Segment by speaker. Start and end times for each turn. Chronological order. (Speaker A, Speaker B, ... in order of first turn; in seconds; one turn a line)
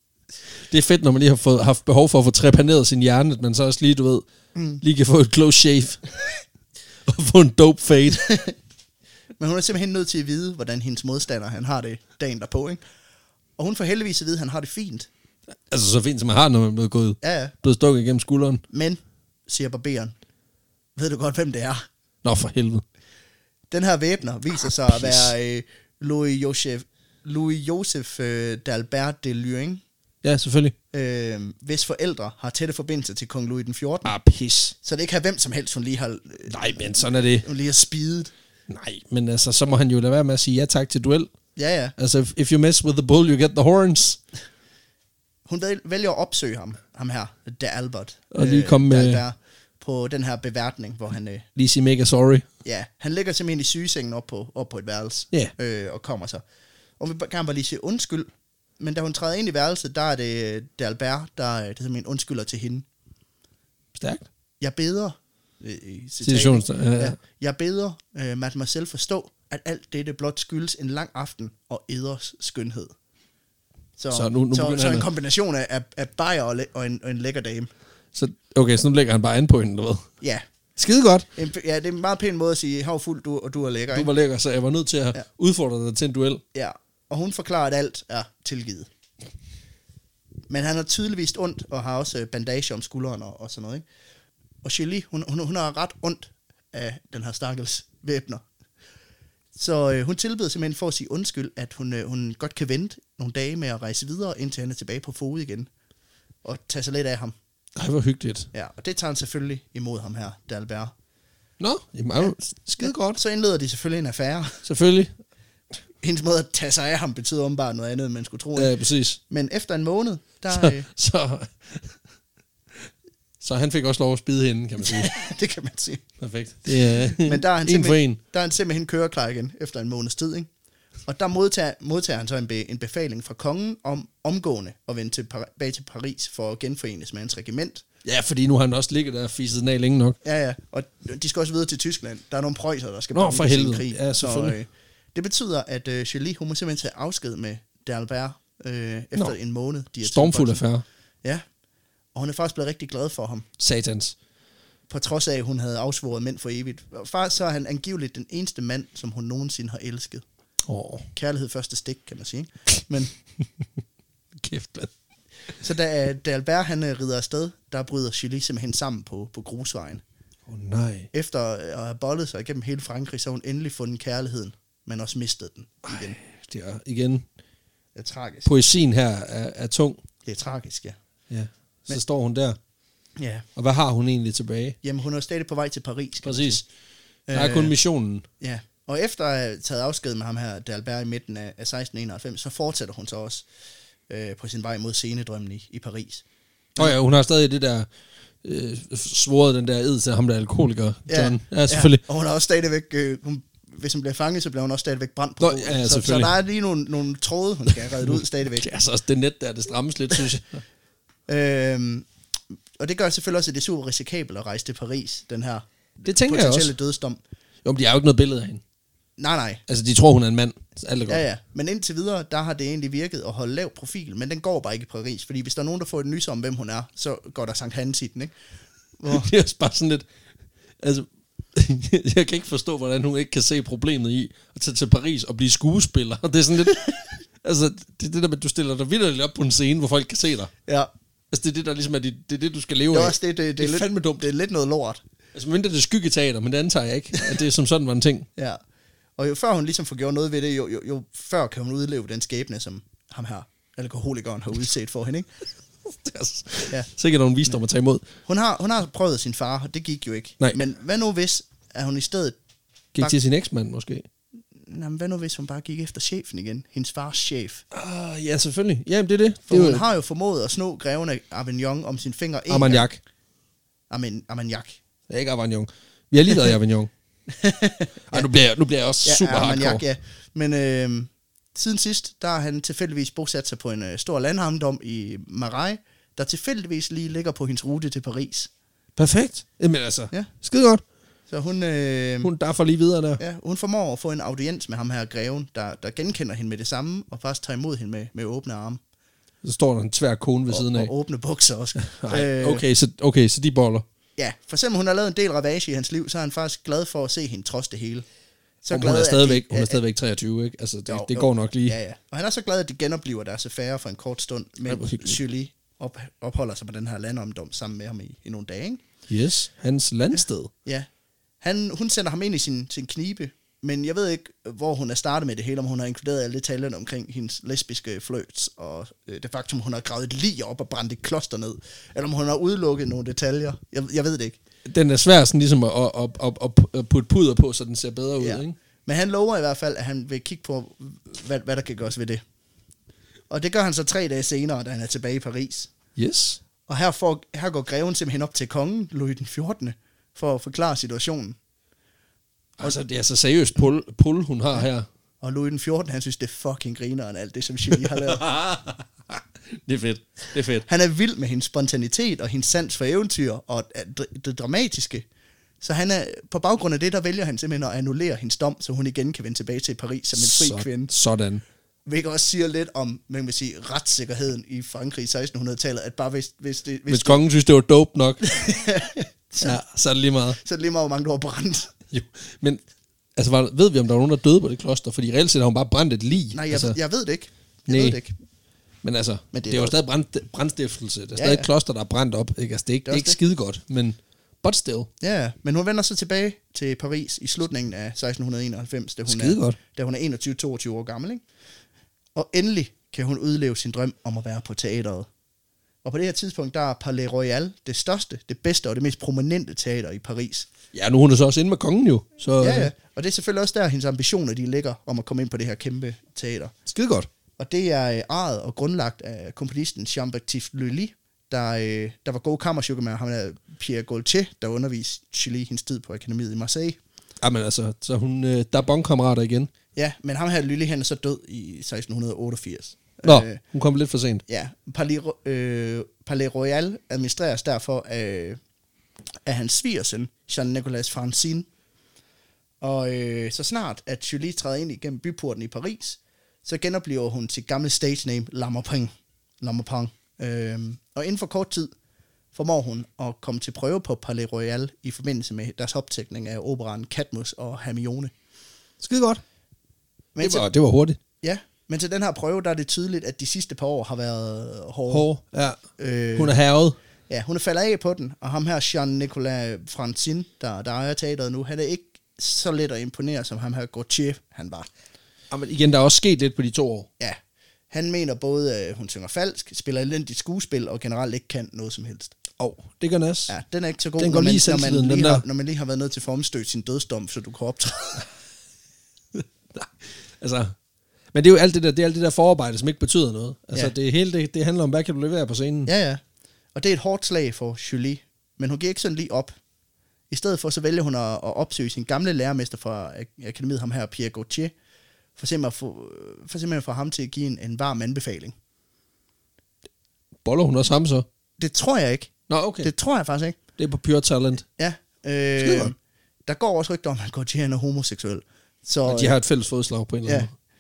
Speaker A: 0.7-4.2
Speaker B: 4.5-4.8
Speaker A: 4.8-6.0
Speaker A: 7.1-8.3
Speaker B: 8.1-8.5
Speaker B: 9.4-12.8
Speaker B: 13.6-15.1
Speaker A: 15.7-18.6
Speaker B: 17.2-17.5
Speaker B: 18.7-20.1
Speaker B: 21.0-21.9
Speaker A: 22.2-22.8
Speaker B: 23.7-29.8
Speaker A: 24.9-25.3
Speaker A: 30.2-30.7
Speaker B: 30.9-34.1
Speaker A: 34.0-34.8
Speaker B: 34.8-36.9
Speaker A: 36.5-37.5
Speaker B: 37.4-38.3
Speaker A: 38.7-41.3
Speaker B: 41.6-41.9
Speaker A: 42.0-44.2
Speaker B: 45.5-51.5
Speaker A: 48.3-49.2
Speaker A: 51.6-52.5
Speaker B: 52.6-56.4
Speaker B: 57.0-58.3
Speaker B: 58.8-62.9
Speaker A: 64.0-64.3
Speaker B: 64.6-72.9
Speaker A: 66.2-67.2
Speaker B: 74.0-77.7
Speaker A: 74.1-75.1
Speaker A: 78.1-80.1
Speaker A: 80.8-81.3
Speaker B: 81.4-84.1
Speaker A: 83.9-86.4
Speaker B: 86.5-88.9
Speaker B: 90.5-93.8
Speaker B: 94.6-98.4
Speaker B: 99.6-105.7
Speaker B: 106.4-107.3
Speaker A: 107.8-108.5
Speaker B: 108.5-110.9
Speaker A: 111.6-113.2
Speaker B: 112.8-114.6
Speaker A: 114.7-115.1
Speaker B: 116.0-118.8
Speaker A: 118.6-119.2
Speaker B: 119.3-120.9
Speaker A: 120.5-122.0
Speaker A: 123.4-125.1
Speaker B: 124.8-126.0
Speaker A: 126.2-128.2
Speaker B: 126.7-130.5
Speaker B: 131.1-137.8
Speaker A: 138.1-140.2
Speaker B: 140.2-150.6
Speaker A: 143.1-144.6
Speaker A: 150.0-150.8
Speaker B: 152.2-153.5
Speaker A: 153.6-154.2
Speaker B: 154.9-160.2
Speaker A: 160.7-161.1
Speaker B: 161.1-163.1
Speaker A: 164.4-164.9
Speaker B: 165.6-170.0
Speaker A: 170.5-171.1
Speaker B: 171.1-176.2
Speaker A: 175.9-177.2
Speaker B: 178.0-178.5
Speaker A: 178.4-180.0
Speaker B: 180.2-181.0
Speaker A: 181.3-182.6
Speaker B: 183.2-183.5
Speaker A: 183.6-184.8
Speaker B: 184.8-186.7
Speaker A: 186.2-186.6
Speaker B: 187.3-187.8
Speaker A: 187.3-188.3
Speaker B: 188.4-193.4
Speaker B: 194.1-196.2
Speaker A: 196.8-197.9
Speaker A: 198.4-202.0
Speaker B: 201.1-208.7
Speaker A: 205.4-206.3
Speaker A: 207.7-210.6
Speaker B: 211.3-212.1
Speaker B: 212.8-217.2
Speaker A: 216.1-216.7
Speaker A: 217.6-218.6
Speaker B: 219.2-219.6
Speaker A: 219.7-221.2
Speaker B: 221.1-228.3
Speaker B: 229.0-229.3
Speaker A: 229.1-230.1
Speaker A: 230.8-240.5
Speaker A: 241.3-244.3
Speaker B: 242.9-245.0
Speaker A: 245.3-248.3
Speaker B: 249.2-255.3
Speaker A: 255.8-258.0
Speaker B: 258.3-262.4
Speaker A: 262.9-264.1
Speaker B: 264.7-267.6
Speaker A: 267.7-269.9
Speaker B: 269.5-272.9
Speaker A: 272.5-273.0
Speaker B: 273.9-274.8
Speaker A: 275.1-276.9
Speaker B: 277.3-278.3
Speaker A: 278.1-279.8
Speaker B: 279.0-288.5
Speaker A: 289.0-290.8
Speaker B: 291.3-292.3
Speaker A: 292.2-293.2
Speaker B: 293.2-298.8
Speaker A: 299.4-300.9
Speaker B: 300.5-302.6
Speaker A: 301.8-303.9
Speaker B: 304.2-308.1
Speaker B: 308.6-309.8
Speaker A: 308.7-311.8
Speaker B: 310.9-318.8
Speaker A: 314.7-315.2
Speaker A: 319.1-320.5
Speaker B: 321.4-334.4
Speaker A: 334.7-338.6
Speaker B: 338.2-342.2
Speaker B: 343.3-345.7
Speaker A: 346.0-346.4
Speaker B: 346.7-351.4
Speaker A: 352.6-354.9
Speaker B: 355.2-358.2
Speaker A: 357.7-360.6
Speaker B: 360.6-365.1
Speaker B: 365.6-370.9
Speaker A: 370.2-371.4
Speaker B: 371.9-377.2
Speaker A: 376.9-378.2
Speaker B: 378.2-379.6
Speaker A: 379.4-380.4
Speaker B: 380.4-381.7
Speaker A: 381.9-382.6
Speaker A: 383.2-386.8
Speaker B: 386.3-388.1
Speaker A: 387.7-388.0
Speaker A: 388.8-394.9
Speaker B: 389.3-389.7
Speaker B: 391.2-391.5
Speaker B: 392.9-393.2
Speaker B: 395.0-401.2
Speaker A: 399.1-399.6
Speaker B: 402.2-405.1
Speaker B: 405.8-410.5
Speaker A: 410.7-412.7
Speaker B: 412.4-416.6
Speaker A: 416.7-417.1
Speaker B: 417.4-426.8
Speaker A: 427.2-429.5
Speaker B: 429.8-433.4
Speaker A: 433.1-434.2
Speaker B: 434.3-438.4
Speaker B: 439.3-441.5
Speaker B: 442.6-448.9
Speaker B: 449.4-451.7
Speaker B: 452.3-458.1
Speaker A: 458.8-459.2
Speaker B: 460.2-460.5
Speaker A: 460.2-461.0
Speaker B: 461.2-465.1
Speaker A: 464.9-465.6
Speaker B: 465.8-466.4
Speaker A: 466.2-466.8
Speaker B: 467.1-474.7
Speaker A: 475.3-476.9
Speaker B: 477.7-482.2
Speaker A: 482.4-483.3
Speaker B: 483.3-488.1
Speaker A: 484.0-485.2
Speaker A: 489.1-490.5
Speaker A: 491.1-495.7
Speaker B: 495.7-496.0
Speaker B: 496.6-499.3
Speaker B: 500.1-504.5
Speaker B: 505.2-508.3
Speaker A: 510.2-511.1
Speaker B: 511.4-513.4
Speaker A: 512.3-512.7
Speaker A: 513.6-514.5
Speaker B: 514.6-515.8
Speaker A: 515.4-515.7
Speaker B: 516.3-519.2
Speaker A: 518.9-520.3